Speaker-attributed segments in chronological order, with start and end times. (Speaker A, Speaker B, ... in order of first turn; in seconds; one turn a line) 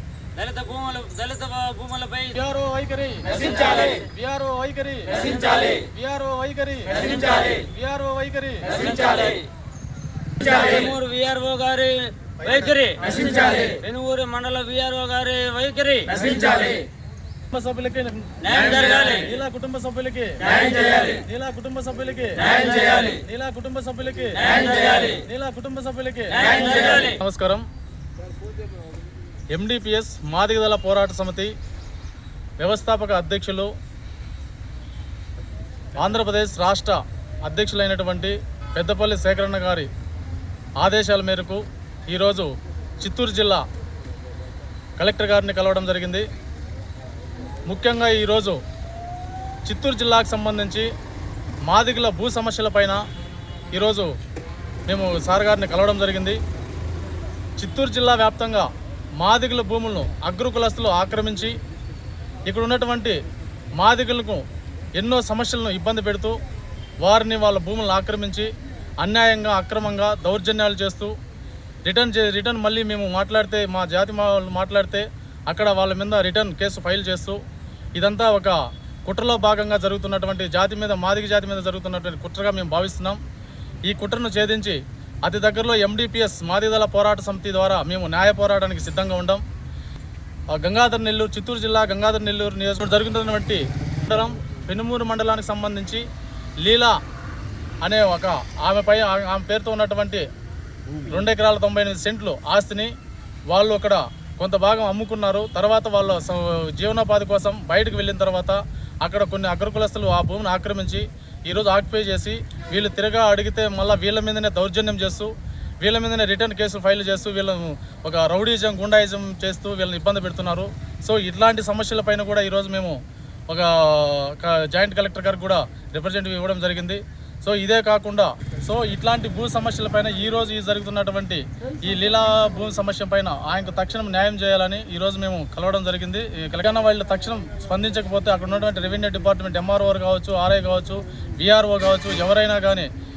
Speaker A: 0.3-2.3
Speaker B: 2.3-5.2
Speaker A: 5.3-5.7
Speaker B: 5.9-8.7
Speaker A: 8.7-9.4
Speaker A: 10.4-16.8
Speaker B: 17.5-20.4
Speaker A: 18.4-19.3
Speaker A: 20.7-21.1
Speaker B: 21.3-24.6
Speaker A: 24.4-25.2
Speaker B: 25.2-27.6
Speaker A: 26.3-27.1
Speaker B: 29.5-31.5
Speaker B: 32.6-33.7
Speaker B: 36.0-39.9
Speaker B: 40.8-43.6
Speaker B: 45.0-46.2
Speaker B: 47.6-48.6
Speaker B: 49.6-50.9
Speaker B: 51.6-53.0
Speaker B: 53.7-54.1
Speaker B: 54.9-56.4
Speaker B: 57.6-58.7
Speaker B: 59.2-61.5
Speaker B: 62.5-63.2
Speaker B: 63.8-64.4
Speaker B: 65.0-66.4
Speaker B: 67.0-71.1
Speaker B: 71.8-77.4
Speaker B: 77.9-83.2
Speaker B: 83.9-89.4
Speaker B: 90.5-96.0
Speaker B: 96.6-97.0
Speaker B: 97.8-100.2
Speaker B: 101.1-102.9
Speaker B: 103.5-123.0
Speaker B: 123.5-142.9